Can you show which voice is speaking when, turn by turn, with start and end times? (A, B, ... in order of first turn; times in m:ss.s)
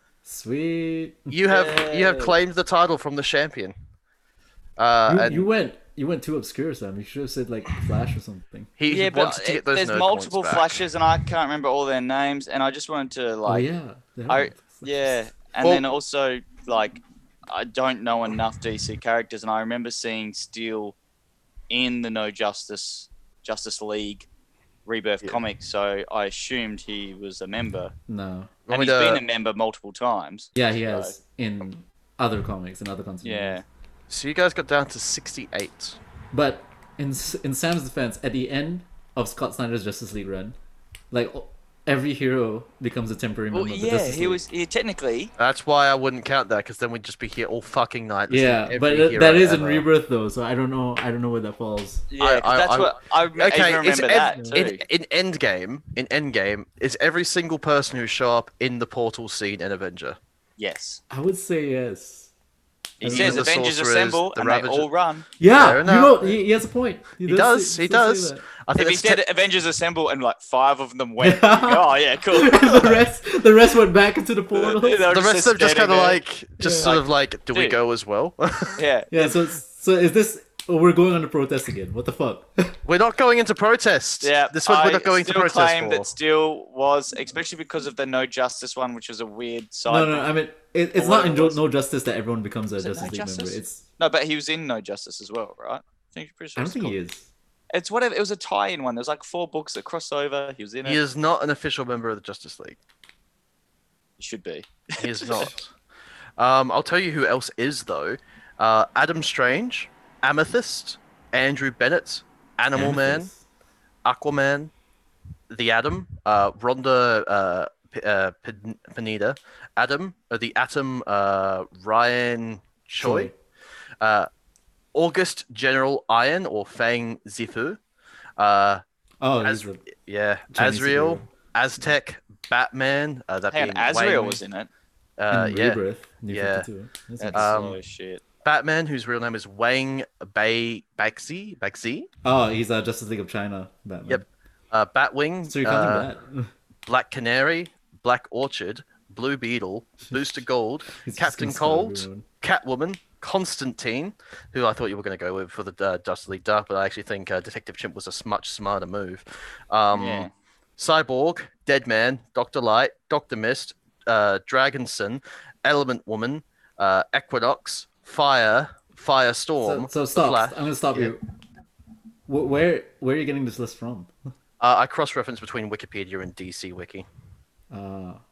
0:00.2-0:01.4 A
0:01.3-0:03.7 B
0:01.5-0:02.3 C
0:04.8-0:05.5 B
0:05.1-0:08.7 A
0:08.8-0:10.8 B
0:08.9-0:13.7 C
0:13.4-0:15.1 A
0:14.3-0:21.0 C
0:21.7-0:24.2 C
0:24.8-0:27.9 C
0:28.1-0:28.5 A
0:28.7-0:29.2 B
0:28.7-0:31.1 C
0:30.5-0:33.6 A
0:33.2-0:33.6 C
0:34.1-0:36.0 B
0:36.3-0:40.6 A
0:41.1-0:44.4 A
0:43.5-0:45.3 C
0:45.4-0:49.9 B
0:48.3-0:52.0 A
0:52.1-0:54.8 C
0:52.2-1:00.2 B
1:00.6-1:01.0 C
1:01.1-1:02.3 A
1:03.0-1:05.2 C
1:03.0-1:03.5 A
1:03.0-1:04.9 B
1:05.4-1:08.4 A
1:05.5-1:06.4 B
1:07.2-1:09.2 B
1:08.7-1:13.0 C
1:11.2-1:15.0 A
1:14.5-1:16.2 C
1:15.1-1:18.8 B
1:16.6-1:16.9 A
1:16.8-1:17.8 C
1:18.8-1:19.4 C
1:19.1-1:22.8 A
1:22.8-1:26.1 B
1:24.2-1:30.3 C
1:29.9-1:33.8 A
1:30.9-1:31.6 C
1:32.8-1:37.0 C
1:36.6-1:37.3 A
1:37.7-1:41.0 C
1:40.8-1:42.8 B
1:44.2-1:45.5 C
1:45.0-1:45.7 B
1:46.4-1:53.3 B
1:52.7-1:53.4 A
1:54.0-1:54.7 B
1:55.5-2:03.3 B
2:03.0-2:03.3 A
2:04.0-2:04.3 B
2:04.9-2:07.8 B
2:08.4-2:08.8 B
2:09.2-2:09.8 A
2:09.4-2:14.4 B
2:10.5-2:11.2 A
2:13.5-2:14.7 C
2:15.2-2:16.6 B
2:15.3-2:17.8 A
2:17.2-2:18.2 C
2:17.3-2:17.8 B
2:18.4-2:22.1 B
2:22.2-2:24.2 A
2:24.1-2:26.1 B
2:25.5-2:26.5 A
2:26.9-2:51.1 B
2:30.9-2:32.2 A
2:39.9-2:40.3 C
2:49.6-2:51.2 A
2:52.3-2:54.1 A
2:54.6-2:57.0 B
2:57.7-2:58.2 A